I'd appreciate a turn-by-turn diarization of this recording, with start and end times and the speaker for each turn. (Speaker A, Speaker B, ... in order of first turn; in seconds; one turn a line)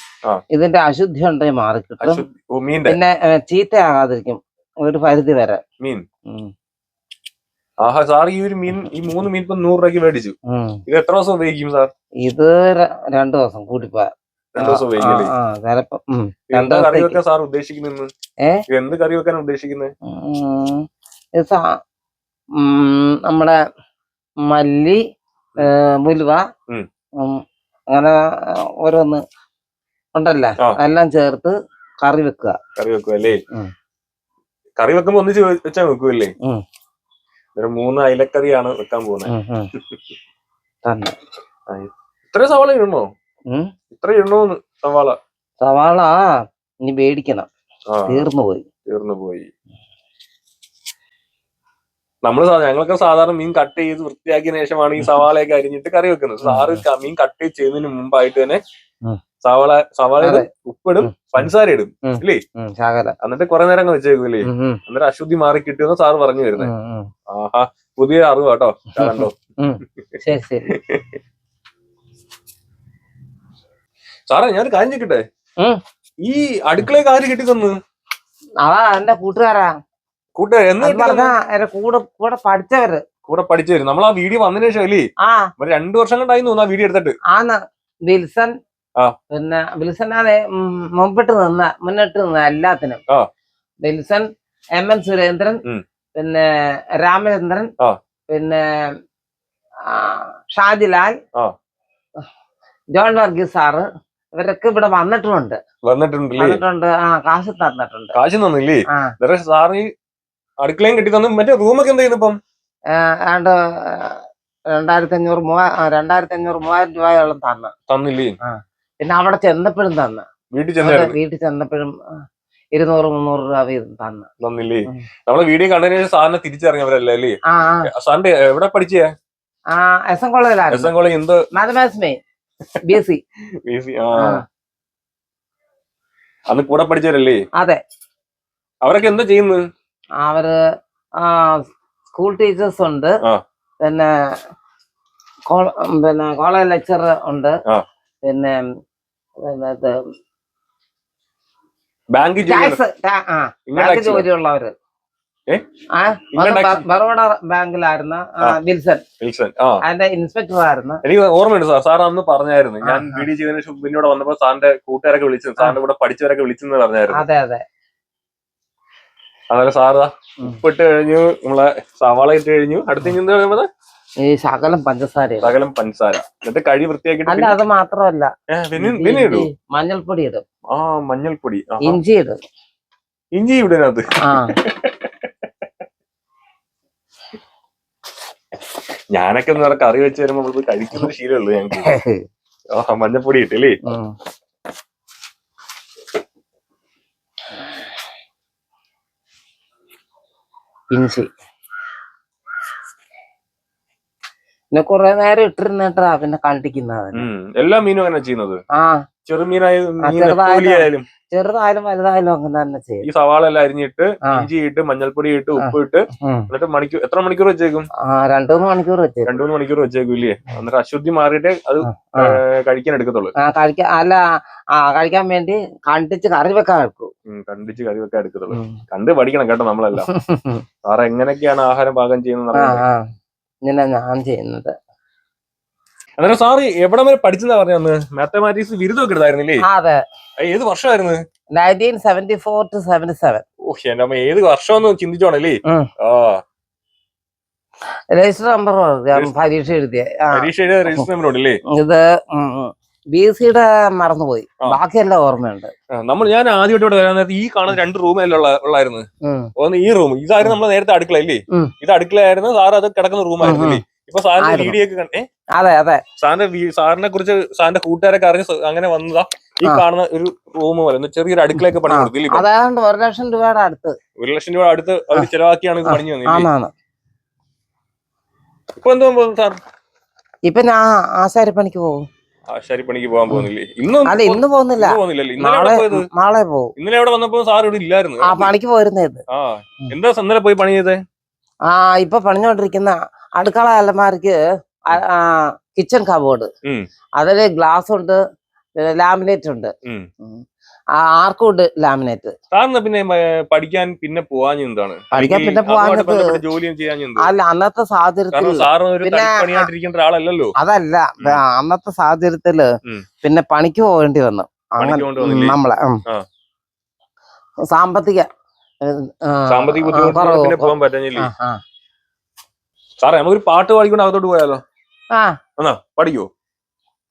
Speaker A: 0.5-2.2
Speaker B: 2.0-3.0
Speaker A: 2.9-5.6
Speaker B: 7.8-10.3
Speaker A: 10.5-10.8
Speaker B: 10.9-11.9
Speaker A: 12.2-17.2
Speaker B: 14.6-15.3
Speaker B: 16.5-18.1
Speaker B: 18.7-19.9
Speaker A: 20.1-21.8
Speaker A: 22.6-23.6
Speaker A: 24.4-25.0
Speaker A: 25.6-26.5
Speaker A: 27.2-29.2
Speaker A: 30.1-32.6
Speaker B: 32.8-33.4
Speaker B: 34.8-36.3
Speaker B: 37.6-39.3
Speaker A: 39.3-39.7
Speaker A: 40.9-41.2
Speaker B: 41.7-43.1
Speaker B: 43.9-45.2
Speaker A: 45.6-46.3
Speaker A: 46.9-47.5
Speaker B: 47.9-48.3
Speaker A: 48.1-48.7
Speaker B: 48.9-49.5
Speaker B: 52.2-58.6
Speaker A: 56.4-56.8
Speaker B: 59.4-62.4
Speaker A: 60.2-60.5
Speaker A: 61.0-61.5
Speaker A: 62.1-63.1
Speaker B: 63.2-66.7
Speaker A: 64.5-64.8
Speaker A: 66.6-67.1
Speaker B: 67.3-69.3
Speaker A: 69.0-70.8
Speaker B: 70.7-71.2
Speaker B: 74.3-75.2
Speaker B: 76.2-77.8
Speaker A: 78.6-79.7
Speaker B: 80.4-81.3
Speaker A: 80.8-83.0
Speaker B: 83.3-85.1
Speaker A: 85.2-85.5
Speaker B: 85.6-87.2
Speaker A: 87.3-88.5
Speaker A: 89.3-93.0
Speaker A: 93.8-95.6
Speaker A: 96.2-96.5
Speaker A: 97.0-97.7
Speaker A: 98.3-98.6
Speaker A: 99.9-101.2
Speaker A: 103.0-103.8
Speaker A: 104.4-105.6
Speaker B: 105.8-106.6
Speaker A: 106.4-108.1
Speaker B: 108.2-109.9
Speaker B: 110.6-112.4
Speaker A: 112.9-114.2
Speaker A: 114.7-117.7
Speaker B: 117.9-118.4
Speaker A: 118.4-120.3
Speaker B: 120.5-121.2
Speaker A: 120.8-122.2
Speaker A: 122.8-124.3
Speaker B: 124.4-129.1
Speaker A: 127.5-127.9
Speaker A: 129.7-130.9
Speaker B: 130.7-131.4
Speaker A: 131.5-132.2
Speaker A: 132.8-133.2
Speaker B: 133.7-134.4
Speaker A: 134.2-134.4
Speaker B: 136.5-137.4
Speaker B: 138.8-139.7
Speaker A: 140.2-140.6
Speaker A: 141.2-143.2
Speaker A: 143.8-144.4
Speaker A: 145.5-147.6
Speaker A: 148.2-148.7
Speaker A: 149.4-150.0
Speaker B: 152.1-152.8
Speaker A: 152.4-154.7
Speaker B: 153.7-154.3
Speaker A: 155.9-159.0
Speaker B: 156.3-156.8
Speaker B: 159.2-159.8
Speaker A: 159.8-161.0
Speaker B: 161.0-167.2
Speaker A: 162.8-163.3
Speaker A: 167.1-167.7
Speaker B: 169.5-173.7
Speaker A: 174.2-175.5
Speaker B: 175.4-177.6
Speaker A: 177.3-180.4
Speaker B: 178.5-179.5
Speaker B: 180.7-182.0
Speaker A: 181.8-182.4
Speaker B: 183.4-185.3
Speaker A: 184.2-184.6
Speaker B: 189.1-192.0
Speaker A: 191.8-192.2
Speaker B: 192.7-193.8
Speaker A: 193.9-194.2
Speaker A: 200.9-201.3
Speaker A: 204.7-207.3
Speaker B: 207.2-208.6
Speaker A: 208.7-209.0
Speaker B: 209.3-211.1
Speaker A: 210.0-213.1
Speaker B: 213.1-217.9
Speaker A: 215.6-216.5
Speaker A: 218.0-219.3
Speaker B: 219.3-223.3
Speaker A: 221.9-222.4
Speaker A: 223.4-224.2
Speaker A: 224.8-227.1
Speaker B: 227.3-230.1
Speaker A: 228.5-228.8
Speaker A: 230.0-230.6
Speaker B: 230.8-232.8
Speaker A: 232.5-233.0
Speaker A: 233.7-234.7
Speaker B: 236.2-239.6
Speaker A: 239.6-240.0
Speaker B: 240.4-241.2
Speaker A: 241.6-243.4
Speaker B: 243.7-246.4
Speaker A: 248.1-251.1
Speaker B: 250.3-251.6
Speaker A: 251.7-255.7
Speaker B: 255.9-259.1
Speaker A: 259.2-259.5
Speaker B: 259.6-265.2
Speaker A: 263.4-263.8
Speaker A: 264.4-264.8
Speaker A: 265.6-266.0
Speaker B: 266.2-272.4
Speaker A: 271.7-274.0
Speaker B: 274.2-276.5
Speaker A: 275.9-276.7
Speaker B: 278.8-279.6
Speaker A: 280.4-282.0
Speaker B: 282.5-286.1
Speaker A: 284.1-286.7
Speaker B: 286.8-288.5
Speaker A: 288.2-289.2
Speaker B: 289.3-291.0
Speaker A: 291.7-296.5
Speaker A: 297.2-298.2
Speaker A: 298.8-300.4
Speaker A: 301.0-302.4
Speaker B: 302.5-307.3
Speaker A: 305.1-306.4
Speaker A: 307.2-309.7
Speaker B: 308.3-310.5
Speaker A: 310.6-312.7
Speaker A: 313.2-316.0
Speaker B: 314.8-315.6
Speaker A: 317.7-318.3
Speaker A: 318.8-321.6
Speaker B: 319.5-321.3
Speaker B: 323.0-324.6
Speaker A: 325.1-325.4
Speaker B: 325.6-326.3